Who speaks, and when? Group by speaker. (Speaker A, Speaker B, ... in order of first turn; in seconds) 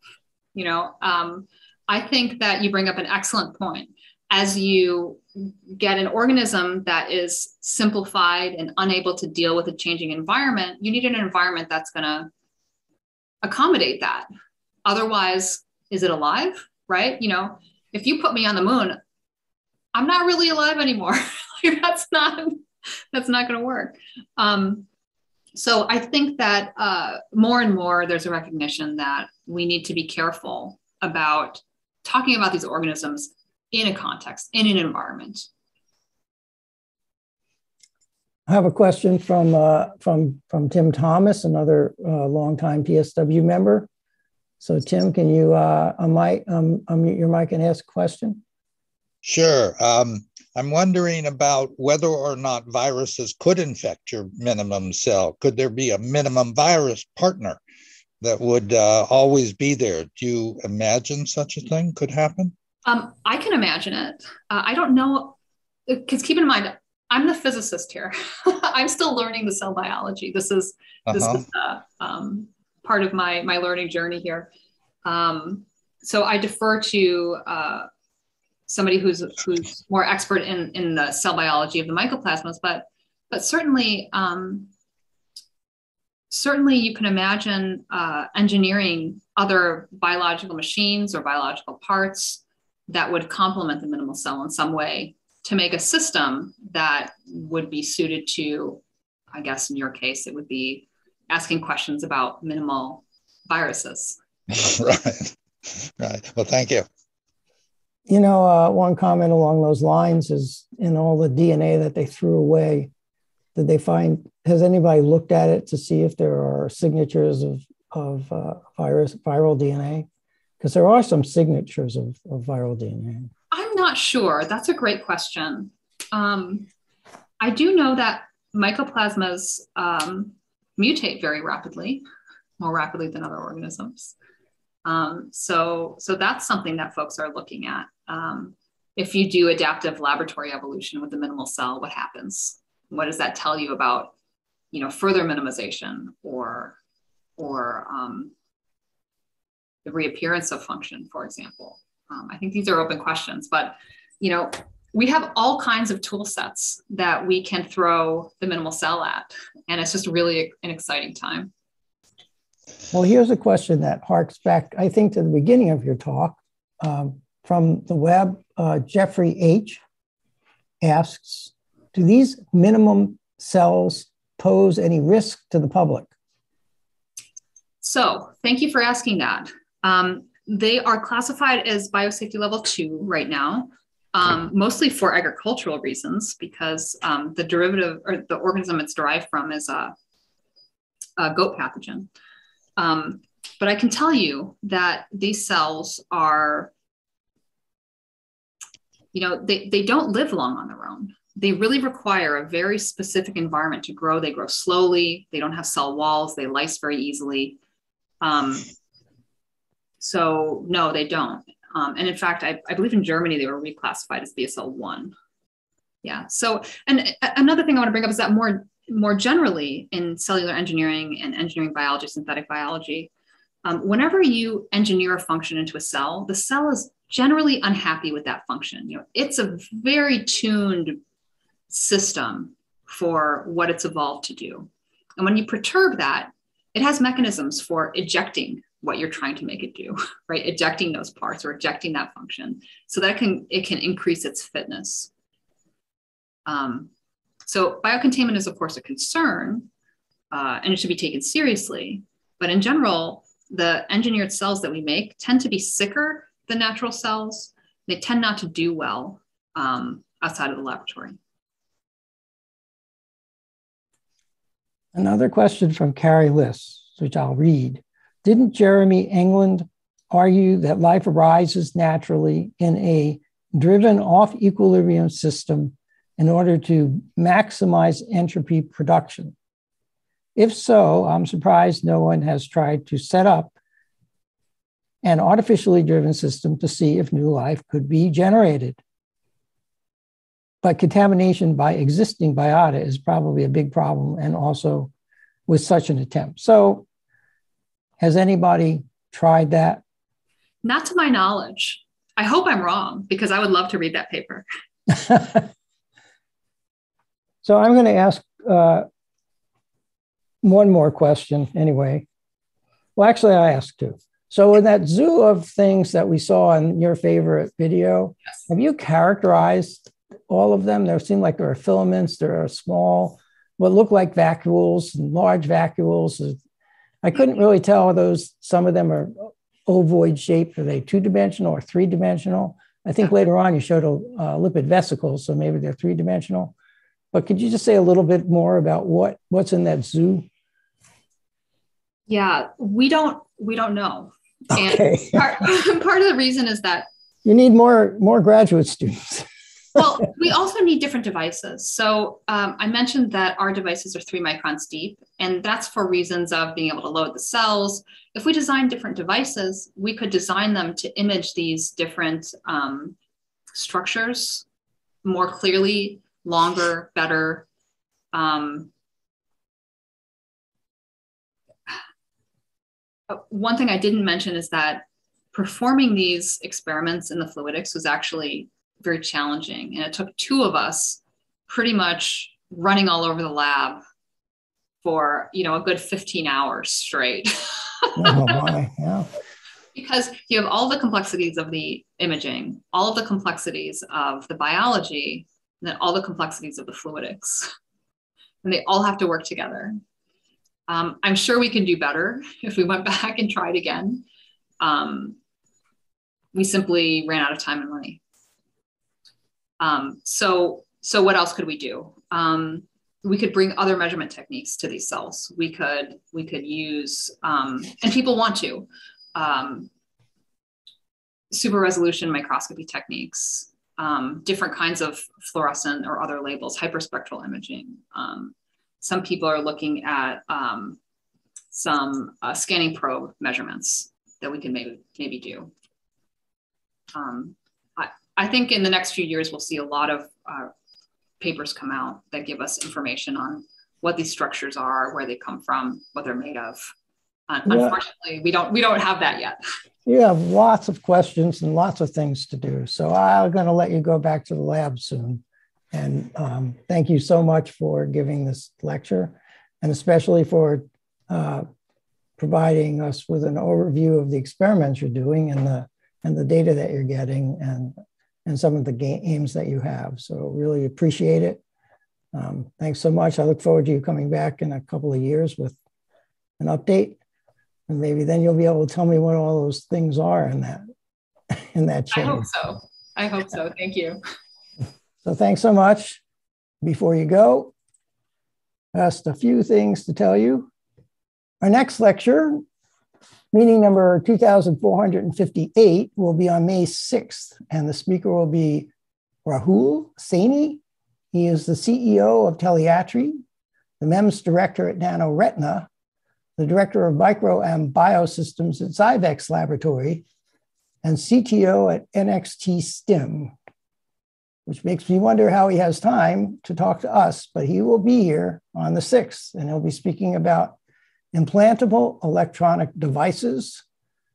Speaker A: 0.5-12.3, 13.4-14.3, 14.8-19.0, 19.9-24.9, 25.5-35.5, 62.9-65.3, 65.9-74.5, 75.0-77.9, 78.7-84.7, 86.3-98.8, 99.3-104.2, 123.5-126.7, 127.4-132.0, 132.6-134.1, 134.8-144.1, 144.7-146.8, 147.4-148.3, 149.8-161.5, 177.8-189.9, 191.2-192.1, 192.8-196.7, 199.1-207.6, 208.2-208.7, 210.0-215.1, 216.0-223.1, 223.6-231.0, 231.7-245.1, 246.4-246.9, 247.4-249.7, 250.3-261.2, 300.6-304.4, 342.1-346.9, 349.7-362.9, 363.5-364.4, 365.0-367.4, 368.1-368.7, 373.1-383.8, 384.8-388.3, 389.7-397.5, 398.4-399.8, 400.7-404.0, 404.6-405.2, 406.3-408.0, 409.6-419.7, 421.3-430.8, 431.5-435.5, 436.9-440.5, 441.2-446.7, 447.3-449.4, 481.9-484.0
Speaker B: 38.5-43.9, 44.6-48.4, 108.1-112.9, 113.5-120.0, 120.6-123.3, 162.9-169.8, 170.8-176.1, 264.9-279.3, 280.4-283.5, 285.0-288.8, 290.6-294.9, 295.5-296.9, 298.0-299.8, 305.0-305.4, 307.4-308.9, 310.4-312.1, 312.9-326.4, 327.0-336.5, 337.1-340.3, 344.5-345.2, 347.2-349.2, 387.9-389.1, 447.5-447.8, 449.9-461.4, 462.2-467.7, 468.2-471.4, 472.1-475.6, 476.4-477.0, 477.7-480.6, 481.3-482.2, 485.0-486.0, 486.6-487.5, 488.7-490.5, 491.4-492.4, 493.3-498.7, 499.2-500.6, 501.1-503.2, 503.8-505.7, 506.4-510.0, 510.8-513.3, 514.5-520.5, 521.1-523.6
Speaker C: 49.2-57.6, 58.2-62.5, 71.1-71.4, 104.5-105.3, 106.0-106.9